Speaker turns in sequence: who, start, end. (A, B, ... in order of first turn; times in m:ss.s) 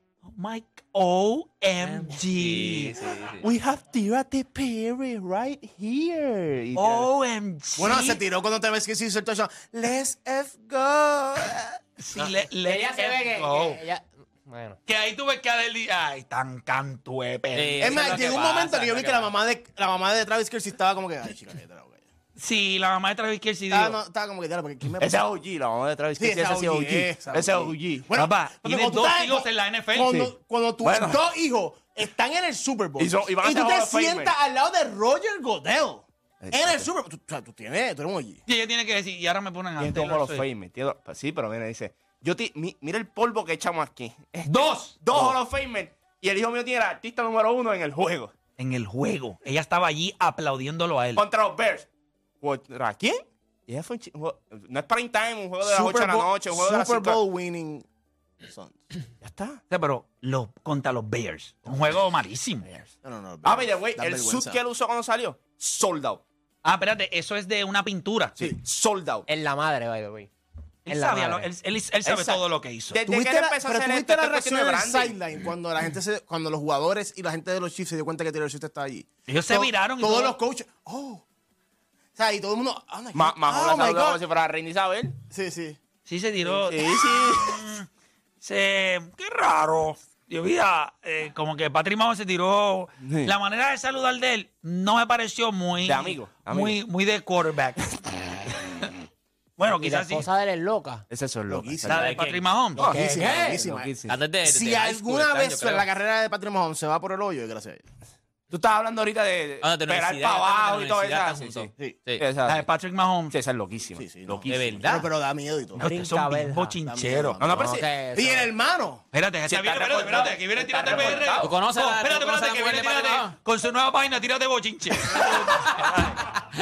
0:00.2-0:03.0 A
0:02.3-0:03.4 B
0:03.4-0:07.1 C
0:06.8-0:08.2 A
0:07.8-0:11.6 D
0:12.0-0:13.8 A
0:12.2-0:14.8 E
0:14.9-0:18.1 A
0:17.5-0:19.3 B
0:17.8-0:22.0 D
0:22.4-0:24.0 A
0:23.7-0:25.3 D
0:25.0-0:28.1 C
0:26.2-0:38.4 D
0:28.1-0:30.1 A
0:30.0-0:31.2 C
0:33.0-0:34.3 C
0:36.4-0:36.9 C
0:38.5-0:40.4 A
0:39.8-0:48.3 C
0:44.5-0:45.4 A
0:48.6-0:51.2 A
0:51.2-0:51.9 C
0:52.4-0:57.2 C
0:55.6-0:57.9 D
0:58.4-0:58.8 D
0:59.2-0:59.6 C
0:59.7-1:02.7 A
1:03.0-1:04.6 D
1:03.4-1:06.2 C
1:06.6-1:08.4 A
1:08.4-1:09.2 C
1:09.3-1:10.3 E
1:10.9-1:13.0 A
1:10.9-1:11.5 E
1:12.0-1:15.2 C
1:13.0-1:21.2 D
1:19.3-1:20.4 A
1:22.2-1:24.2 D
1:23.1-1:25.1 C
1:25.3-1:25.8 D
1:26.1-1:27.9 A
1:26.4-1:27.6 C
1:28.4-1:37.9 A
1:33.0-1:33.3 C
1:35.8-1:36.8 C
1:39.6-1:40.3 A
1:39.6-1:41.0 E
1:41.1-1:42.2 C
1:41.5-1:42.0 D
1:41.9-1:42.8 A
1:41.9-1:42.5 B
1:42.8-1:43.6 E
1:42.8-1:44.2 C
1:42.8-1:43.9 D
1:44.1-1:45.9 B
1:44.4-1:47.8 D
1:48.5-1:52.7 C
1:49.6-1:52.2 B
1:52.4-1:53.3 A
1:53.3-1:54.9 C
1:54.0-1:55.8 D
1:54.5-1:55.1 B
1:55.8-1:56.8 E
1:55.8-1:57.4 A
1:56.9-1:59.0 D
1:57.4-1:57.9 C
1:57.5-1:58.5 E
1:59.1-2:06.2 A
1:59.5-2:01.6 C
2:00.8-2:01.3 E
2:01.4-2:03.4 B
2:05.1-2:06.4 B